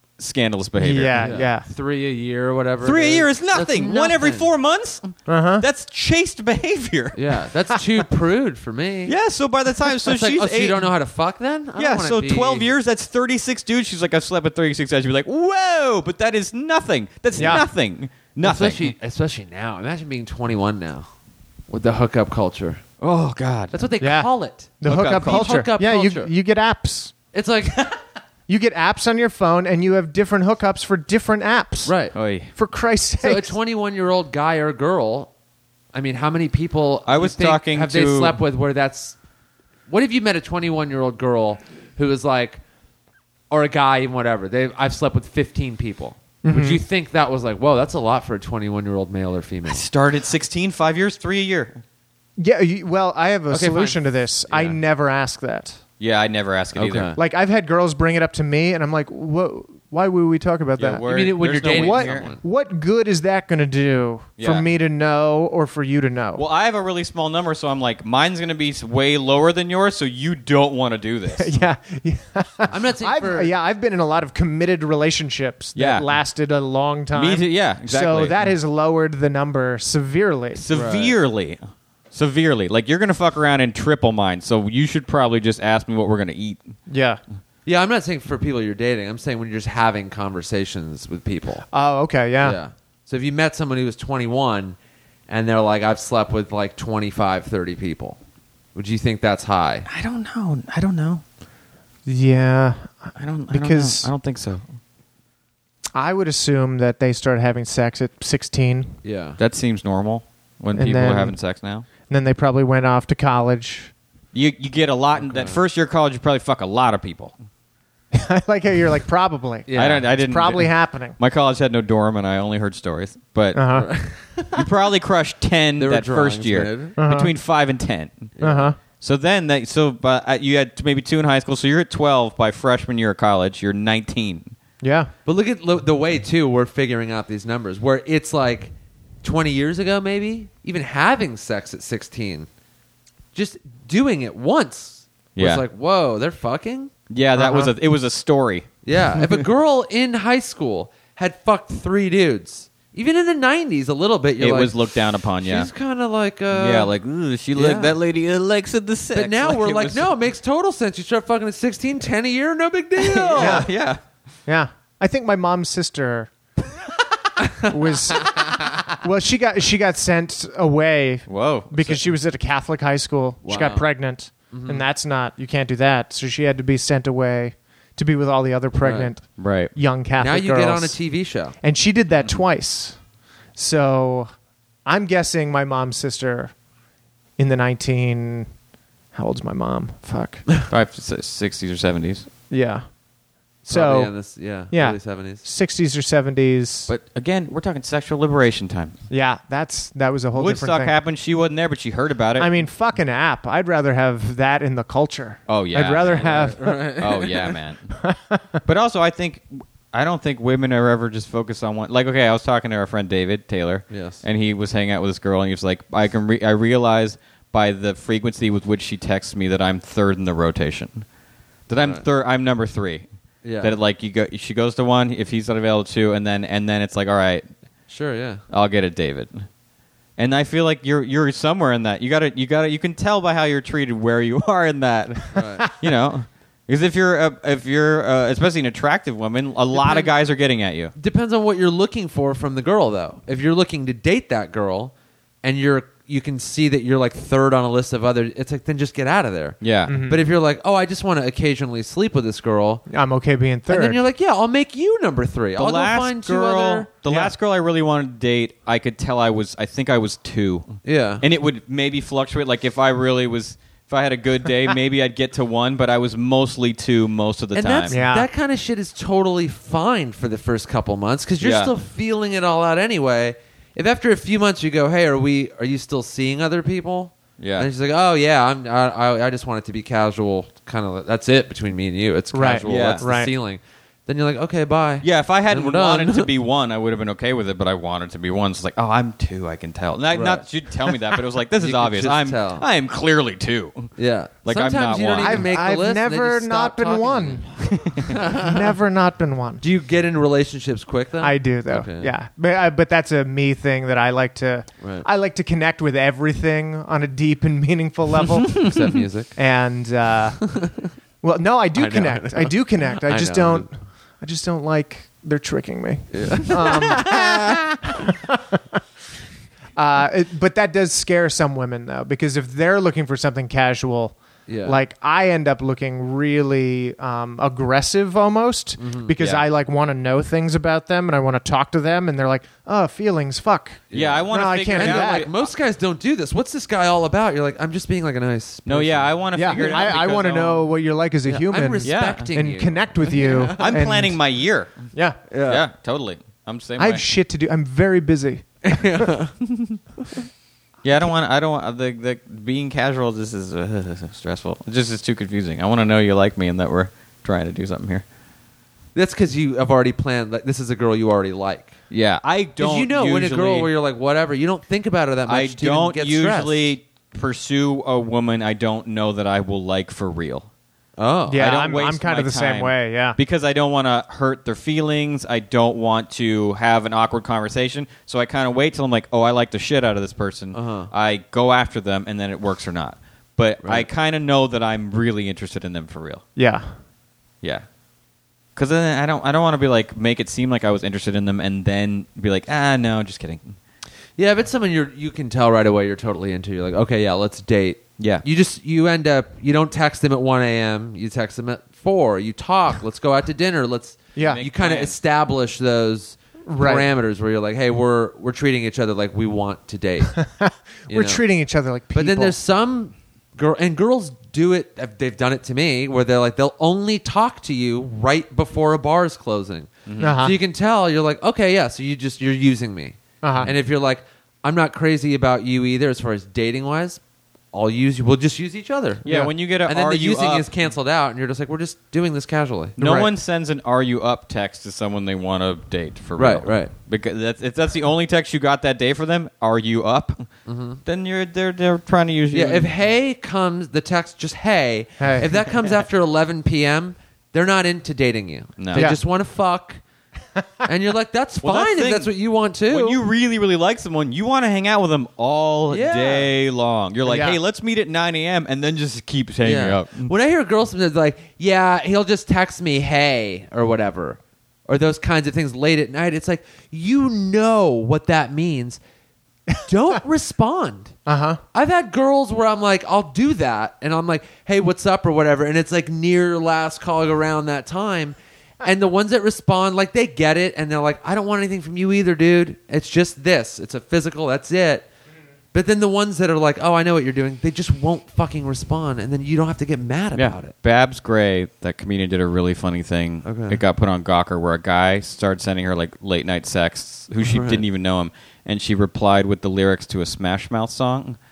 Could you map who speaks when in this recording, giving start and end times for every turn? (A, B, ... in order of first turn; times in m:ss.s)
0:00.2-0:01.3 A
0:00.8-0:01.7 B
0:01.2-0:04.5 C
0:02.8-0:07.2 A
0:05.3-0:05.6 B
0:07.1-0:09.1 C
0:09.1-0:10.9 A
0:09.9-0:12.7 C
0:11.8-0:18.9 A
0:17.4-0:17.6 C
0:17.4-0:17.6 B
0:18.4-0:21.1 C
0:21.7-0:22.8 C
0:23.0-0:23.7 A
0:23.7-0:26.3 C
0:24.0-0:24.3 B
0:24.8-0:27.1 B
0:24.8-0:25.6 A
0:27.3-0:27.9 C
0:28.5-0:31.9 B
0:31.8-0:32.1 C
0:32.1-0:32.5 A
0:32.5-0:33.6 B
0:33.2-0:35.3 C
0:35.9-0:39.2 C
0:37.0-0:38.4 A
0:39.9-0:42.6 C
0:43.5-0:49.8 C
0:46.4-0:46.8 B
0:49.7-0:51.8 A
0:52.4-0:55.8 B
0:53.5-0:54.0 C
0:56.0-0:57.1 A
0:56.7-0:57.2 C
0:57.2-1:06.4 B
1:00.8-1:02.3 A
1:01.1-1:02.4 C
1:04.4-1:04.6 A
1:06.4-1:11.6 A
1:11.3-1:20.6 B
1:12.7-1:13.5 C
1:15.8-1:16.1 A
1:17.1-1:18.4 A
1:20.5-1:21.6 A
1:20.7-1:21.1 C
1:22.1-1:26.7 A
1:26.9-1:27.2 B
1:27.6-1:31.6 C
1:31.7-1:32.6 B
1:32.4-1:34.8 C
1:35.3-1:38.2 C
1:38.7-1:39.8 C
1:39.9-1:41.2 A
1:42.0-1:44.1 B
1:43.2-1:44.6 A
1:45.9-1:48.9 B
1:49.0-1:49.4 C
1:49.4-1:51.8 A
1:50.7-1:51.4 B
1:52.1-1:53.9 B
1:54.3-1:57.3 A
1:55.2-1:55.6 C
1:58.1-2:01.2 B
1:59.7-2:00.1 C
1:59.7-2:03.7 A
2:03.5-2:03.9 B
2:03.7-2:04.6 C
2:04.5-2:08.3 A
2:05.8-2:06.9 C
2:07.0-2:07.3 B
2:08.4-2:08.7 C
2:08.4-2:08.8 B
2:09.0-2:14.5 A
2:14.8-2:15.1 B
2:15.2-2:22.5 C
2:23.3-2:26.9 C
2:25.4-2:25.6 A
2:27.1-2:28.7 A
2:27.4-2:27.7 B
2:28.8-2:34.8 C
2:34.4-2:35.7 A
2:35.4-2:36.9 C
2:36.5-2:40.1 A
2:37.5-2:38.0 C
2:39.1-2:43.6 C
2:43.0-2:44.0 A
2:43.4-2:43.7 B
2:44.5-2:46.3 B
2:47.4-2:48.6 C
2:47.6-3:01.0 B
2:51.3-2:52.0 A
2:53.4-2:53.9 C
2:54.5-2:54.8 C
2:58.8-2:59.1 C
2:59.4-2:59.7 A
3:00.2-3:01.5 C
3:01.6-3:03.0 B
3:03.6-3:04.3 B
3:04.8-3:06.5 B
3:07.4-3:08.5 B
3:09.1-3:10.5 B
3:10.7-3:12.3 A
3:12.5-3:12.8 B
3:13.6-3:14.1 B
3:13.7-3:15.4 C
3:14.7-3:16.9 B
3:16.9-3:19.0 A
3:19.1-3:20.9 B
3:20.4-3:22.5 A
3:22.4-3:26.8 B
3:25.5-3:27.9 A
3:26.2-3:27.5 C
3:28.0-3:28.6 B
3:28.6-3:41.0 A
3:33.9-3:34.2 C
3:41.7-3:43.0 A
3:43.4-3:43.7 C
3:43.6-3:47.4 A
3:47.9-3:48.4 C
3:48.5-3:49.4 A
3:50.2-4:00.9 A
3:55.3-3:55.7 C
3:59.7-4:00.1 C
4:01.0-4:12.8 C
4:09.6-4:10.0 A
4:09.9-4:10.2 B
4:12.9-4:14.0 B
4:13.7-4:16.9 C
4:15.6-4:27.9 A
4:17.0-4:17.3 B
4:20.8-4:21.2 C
4:27.5-4:46.3 C
4:27.9-4:28.3 B
4:31.4-4:31.7 A
4:37.4-4:37.7 A
4:42.3-4:43.3 B
4:42.6-4:43.0 A
4:45.0-4:53.9 A
4:50.1-4:52.7 C
4:54.0-4:57.4 C
4:54.4-4:55.5 A
4:55.2-4:59.6 B
4:57.9-4:58.1 A
4:58.0-4:58.6 C
4:59.6-5:02.1 C
5:01.2-5:08.7 B
5:04.8-5:05.0 C
5:08.6-5:09.3 C
5:09.3-5:10.4 B
5:10.4-5:10.9 C
5:11.2-5:18.8 B
5:11.7-5:13.7 C
5:16.1-5:17.6 C
5:19.8-5:35.3 B
5:24.5-5:24.8 C
5:28.8-5:29.1 C
5:29.2-5:29.4 A
5:33.9-5:39.9 C
5:33.9-5:35.5 A
5:38.6-5:40.7 A
5:39.3-5:44.2 B
5:41.3-5:43.7 C
5:41.8-5:42.3 A
5:43.6-5:44.8 A
5:44.9-5:45.2 B
5:45.3-5:45.6 C
5:45.4-5:47.0 A
5:46.8-5:49.1 B
5:48.6-5:49.3 C
5:49.5-5:49.8 A
5:50.8-5:58.0 A
5:58.9-6:01.8 C
6:01.9-6:03.7 A
6:02.6-6:06.7 C
6:05.3-6:10.5 A
6:11.0-6:11.4 C
6:11.3-6:13.2 B
6:11.4-6:26.2 A
6:20.5-6:20.9 C
6:23.6-6:23.9 C
6:26.4-6:26.7 B
6:28.6-6:33.6 A
6:34.2-6:50.2 C
6:38.0-6:38.2 A
6:44.2-6:44.4 B
6:44.2-6:44.9 A
6:46.4-6:46.8 B
6:50.1-6:52.3 B
6:50.9-6:51.2 C
6:51.9-7:07.0 C
6:59.9-7:00.2 A
7:00.0-7:00.4 B
7:03.2-7:03.5 B
7:07.5-7:09.0 C
7:09.0-7:10.5 A
7:09.0-7:09.3 B
7:09.6-7:12.8 C
7:12.8-7:13.1 B
7:12.8-7:20.3 A
7:16.2-7:16.7 C
7:20.4-7:20.8 C
7:20.8-7:22.7 A
7:22.3-7:29.8 C
7:25.0-7:25.3 B
7:28.6-7:28.9 A
7:28.7-7:29.0 B
7:30.6-7:33.0 C
7:31.4-7:32.1 A
7:32.7-7:40.1 A
7:35.7-7:36.3 C
7:37.0-7:37.4 B
7:39.4-7:48.8 C
7:49.6-7:50.9 C
7:51.0-7:51.4 B
7:51.5-8:04.9 C
8:05.5-8:10.5 C
8:10.1-8:21.2 A
8:13.2-8:13.6 C
8:17.2-8:17.6 C